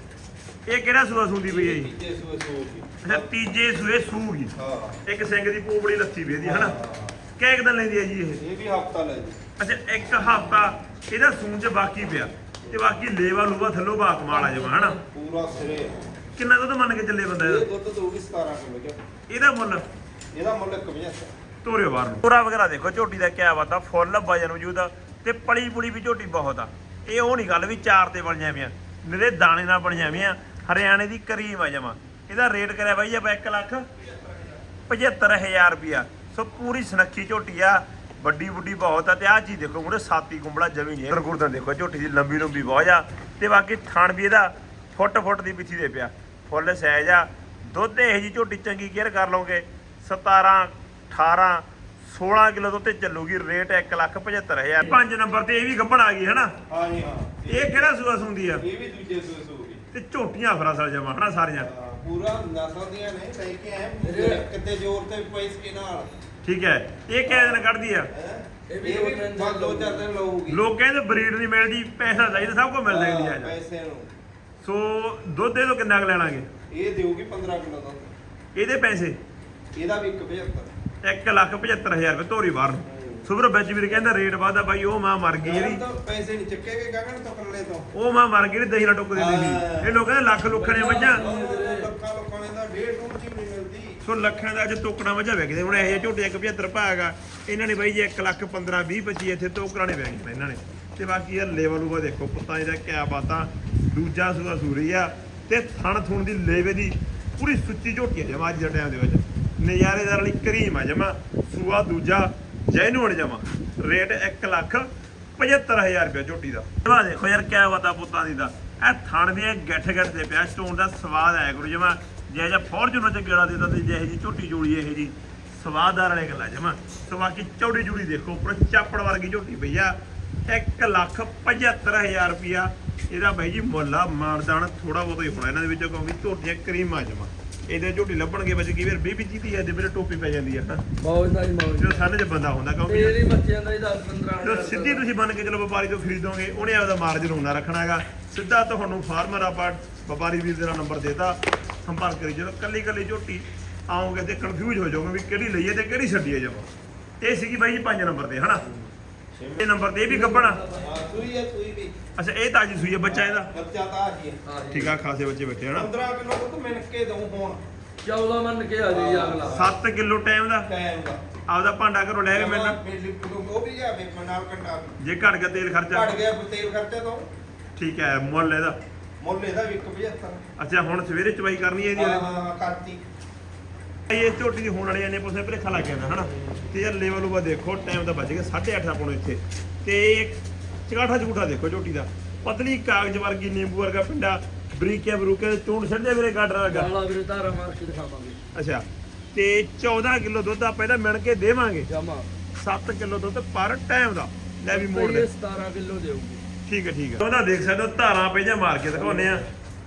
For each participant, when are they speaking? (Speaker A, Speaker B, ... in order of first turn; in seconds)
Speaker A: 0.7-1.9, 3.0-4.5, 5.0-6.8, 7.4-8.4, 9.6-15.0, 16.4-17.7, 19.3-19.9, 21.6-33.9, 34.9-56.6, 57.5-58.6, 59.9-61.7, 66.4-68.1, 70.5-73.5, 74.6-76.5, 78.5-79.2, 81.0-85.8, 87.9-91.2, 94.0-130.0, 130.5-140.8, 141.8-143.2, 144.4-156.7, 157.2-158.7, 159.6-160.6, 162.2-163.5, 164.7-165.9, 169.5-170.7, 171.5-172.8, 175.0-176.2, 177.8-178.8, 180.6-182.2, 184.1-196.9, 198.5-201.9, 202.6-205.3, 206.7-209.4
Speaker B: 1.5-3.3, 4.6-5.0, 6.4-7.2, 8.4-9.4, 15.1-15.9, 17.4-19.0, 20.3-21.3, 56.7-58.0, 58.5-59.9, 61.6-66.1, 67.3-70.6, 72.8-74.1, 76.7-78.1, 79.8-80.7, 82.9-83.3, 85.4-87.9, 89.1-90.0, 90.8-94.0, 159.3-159.7, 160.8-161.9, 163.1-164.4, 165.7-167.6, 168.9-169.8, 170.7-171.2, 172.3-175.0, 175.9-177.3, 179.2-180.4, 181.9-183.0
Speaker C: 14.3-15.1, 64.0-64.5, 68.7-70.0, 90.5-91.9, 141.0-142.1, 142.9-145.1, 160.1-161.0, 164.4-165.0, 168.0-169.6, 196.7-198.4, 201.9-202.3, 204.7-206.4, 208.9-209.4